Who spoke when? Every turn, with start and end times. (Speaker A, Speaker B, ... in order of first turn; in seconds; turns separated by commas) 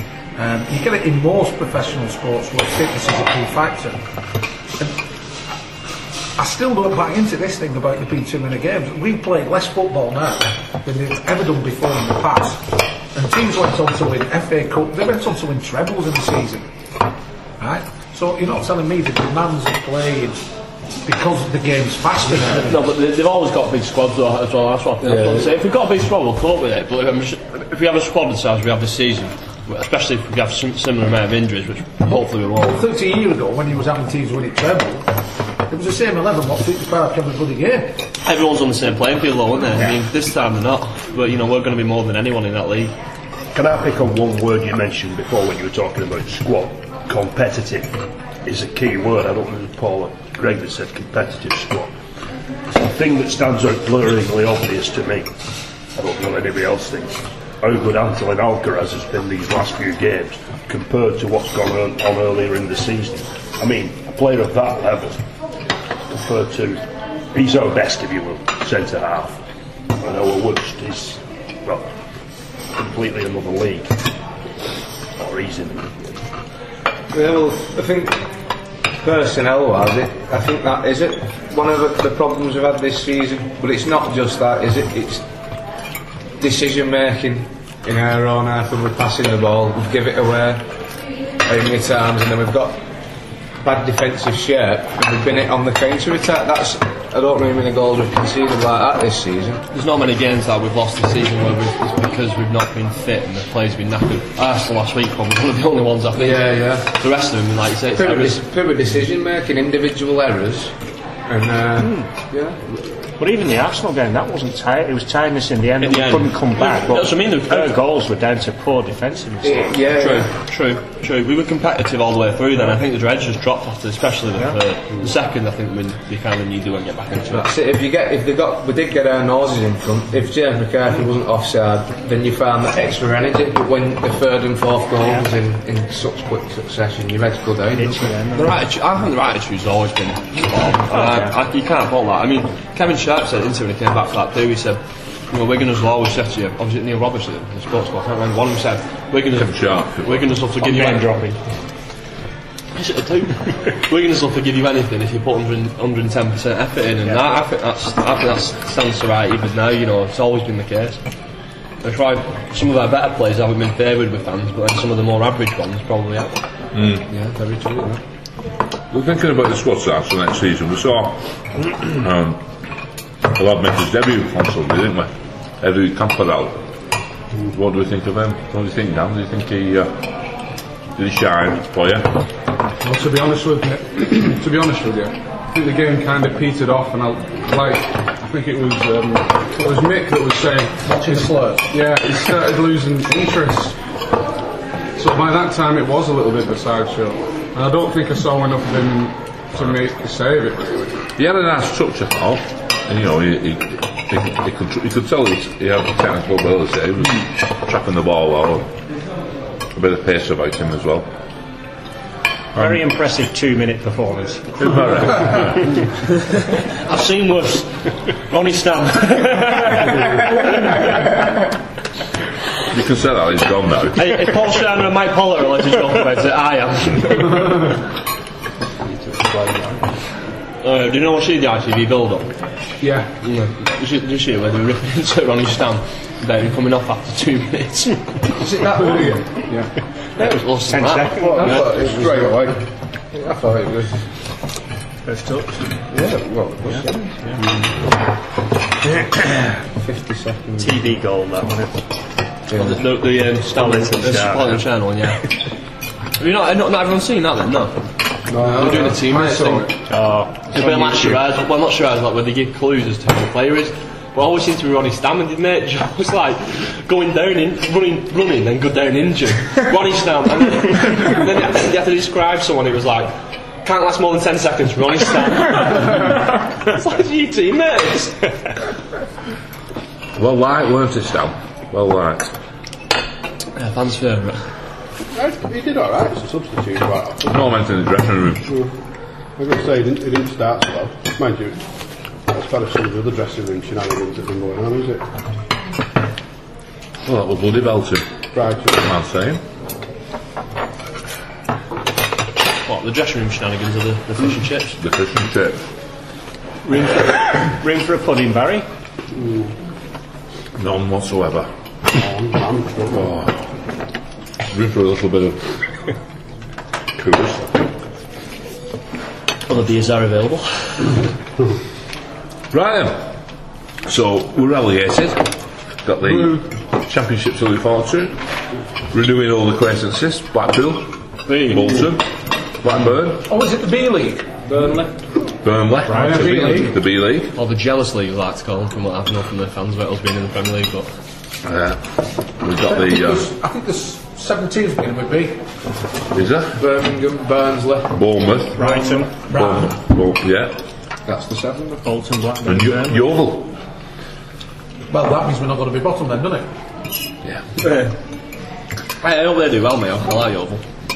Speaker A: 0.3-4.0, Speaker A: 6.3-16.7, Speaker A: 17.6-20.4, Speaker A: 21.0-22.7, Speaker B: 22.6-32.8, Speaker C: 25.0-25.5, Speaker A: 32.7-35.1, Speaker A: 35.7-38.0, Speaker B: 38.2-42.9, Speaker D: 43.5-51.9, Speaker D: 52.7-55.3, Speaker D: 55.9-65.2, Speaker D: 66.1-69.4, Speaker D: 70.0-71.9, Speaker D: 72.7-74.0, Speaker D: 75.2-76.2, Speaker C: 77.1-78.2, Speaker C: 79.0-85.2, Speaker C: 86.4-90.7, Speaker C: 91.4-92.8, Speaker C: 93.6-99.6, Speaker B: 99.7-108.4, Speaker C: 106.1-106.9, Speaker C: 107.9-110.7, Speaker C: 111.3-112.6, Speaker E: 111.8-112.1, Speaker E: 113.2-119.7, Speaker B: 115.8-117.8, Speaker C: 119.4-120.3, Speaker B: 120.0-127.5, Speaker C: 127.3-138.2, Speaker E: 137.7-138.6, Speaker B: 138.3-151.1, Speaker E: 140.9-141.3, Speaker F: 149.3-150.3, Speaker E: 150.6-151.4, Speaker B: 152.7-161.0, Speaker B: 161.8-166.3, Speaker F: 166.7-167.0, Speaker C: 167.1-168.0, Speaker F: 168.9-171.2, Speaker F: 171.8-172.4, Speaker F: 173.3-176.6, Speaker F: 177.5-179.9, Speaker F: 180.9-182.2, Speaker G: 182.8-193.8, Speaker A: 190.8-191.7, Speaker G: 195.0-201.0, Speaker F: 201.2-208.7, Speaker F: 209.7-211.1, Speaker E: 212.5-215.2, Speaker F: 214.6-215.6, Speaker E: 216.8-217.7, Speaker E: 218.3-220.8, Speaker F: 222.7-224.1, Speaker B: 224.0-227.7, Speaker B: 230.6-232.3, Speaker G: 232.8-233.1, Speaker B: 233.2-238.4, Speaker G: 238.4-239.7, Speaker B: 240.2-241.7, Speaker E: 240.2-241.7, Speaker H: 241.2-242.6, Speaker C: 241.3-242.3, Speaker C: 243.1-244.0, Speaker E: 245.0-245.6, Speaker C: 245.9-247.1, Speaker C: 249.2-250.9, Speaker E: 250.6-251.7, Speaker C: 252.5-252.8, Speaker B: 252.5-255.3, Speaker E: 253.6-254.6, Speaker B: 256.2-257.7, Speaker C: 258.3-258.7, Speaker B: 258.4-259.7, Speaker G: 258.4-259.7, Speaker E: 259.9-261.2, Speaker B: 260.5-273.1, Speaker B: 273.6-278.4, Speaker F: 280.2-282.3, Speaker B: 283.6-284.4, Speaker H: 285.1-287.4, Speaker F: 287.2-288.5, Speaker H: 289.4-291.6, Speaker H: 292.3-295.1, Speaker F: 297.1-298.0, Speaker H: 298.3-298.8, Speaker F: 298.7-299.4, Speaker B: 302.6-304.8, Speaker F: 304.8-305.6, Speaker E: 306.6-308.6, Speaker H: 309.1-309.5, Speaker F: 310.6-311.5, Speaker H: 311.9-313.1, Speaker F: 312.9-313.3, Speaker F: 314.5-315.4, Speaker F: 316.9-317.7, Speaker B: 319.5-321.0, Speaker F: 322.5-323.0, Speaker F: 323.8-325.2, Speaker F: 325.8-328.2, Speaker F: 328.9-333.3, Speaker B: 331.3-331.9, Speaker A: 333.2-334.7, Speaker F: 335.4-337.3, Speaker A: 335.9-336.7, Speaker G: 336.2-336.5, Speaker B: 337.3-340.9, Speaker F: 341.4-341.8, Speaker F: 342.4-343.3, Speaker A: 342.6-345.4, Speaker F: 346.1-346.6, Speaker C: 346.5-347.9, Speaker F: 347.9-348.8, Speaker E: 348.6-349.2, Speaker A: 348.6-349.4, Speaker F: 349.3-350.5, Speaker C: 351.1-351.8, Speaker E: 351.8-353.2, Speaker F: 352.4-353.5, Speaker A: 354.9-356.5, Speaker B: 357.6-357.9, Speaker B: 359.0-360.6